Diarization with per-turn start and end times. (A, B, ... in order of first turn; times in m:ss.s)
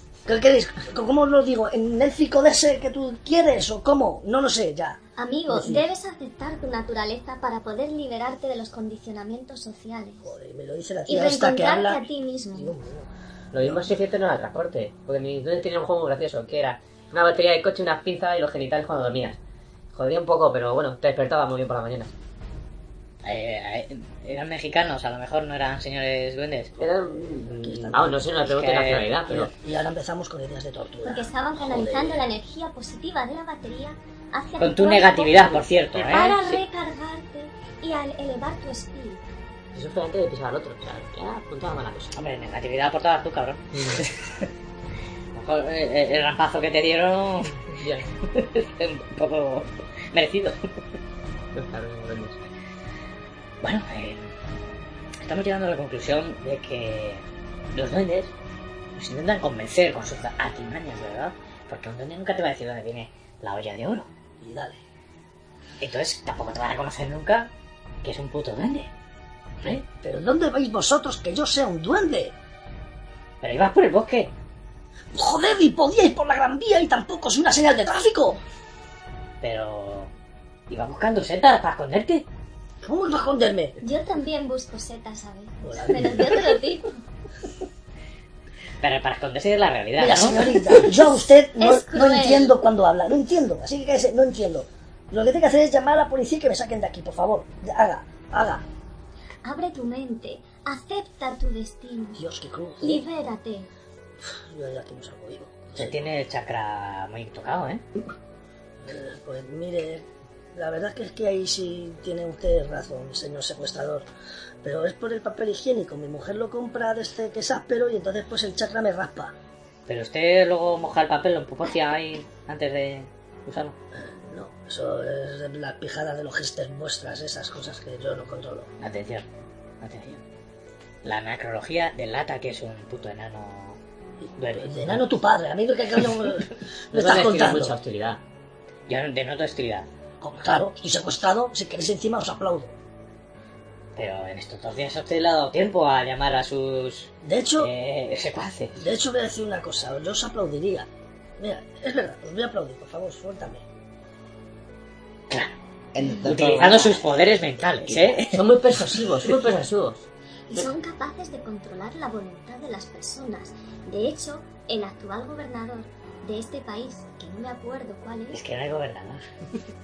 0:00.2-0:05.8 A
0:05.2-0:10.3 B
0:10.2-0:13.1 A
0:11.1-0:12.7 B
0:13.5-0:19.4 C
0:19.9-0:22.1 C
0:23.2-0:26.7 D
0:26.8-0:29.5 C
0:27.5-0:28.3 A
0:28.4-0:29.1 D
0:29.3-0:32.2 A
0:31.0-0:39.2 B
0:34.6-0:36.6 D
0:39.7-0:42.2 C
0:42.1-0:44.5 D
0:43.7-0:44.0 C
0:45.3-0:47.7 D
0:47.7-0:48.1 C
0:48.2-0:50.6 D
0:51.5-0:52.4 C
0:53.6-0:54.3 D
0:55.2-0:58.3 D
0:59.0-1:04.1 D
1:04.4-1:04.8 A
1:05.8-1:07.5 D
1:08.0-1:08.9 D
1:09.6-1:12.3 A
1:13.4-1:14.3 D
1:15.1-1:18.4 A
1:19.4-1:20.1 D
1:20.7-1:22.2 D
1:22.8-1:23.8 A
1:23.8-1:27.0 B
1:25.6-1:26.5 A
1:28.8-1:30.9 D
1:30.0-1:38.6 A
1:31.6-1:32.5 B
1:39.4-1:42.2 B
1:42.2-1:43.0 A
1:42.8-1:43.7 B
1:44.2-1:46.0 A
1:45.8-1:47.8 D
1:48.8-1:54.0 A
1:54.6-1:59.3 A
1:59.9-2:03.8 D
2:03.9-2:08.7 A
2:08.8-2:09.2 D
2:09.8-2:10.2 D
2:11.0-2:13.8 D
2:14.3-2:17.7 A
2:14.4-2:15.0 D
2:16.9-2:18.2 C
2:18.9-2:19.9 D
2:20.2-2:22.7 A
2:24.0-2:28.8 D
2:27.2-2:27.7 A
2:28.8-2:30.9 A
2:31.4-2:33.6 A
2:35.9-2:38.2 E
2:36.2-2:38.4 D
2:38.3-2:40.1 C
2:40.5-2:48.4 B
2:48.3-2:49.2 D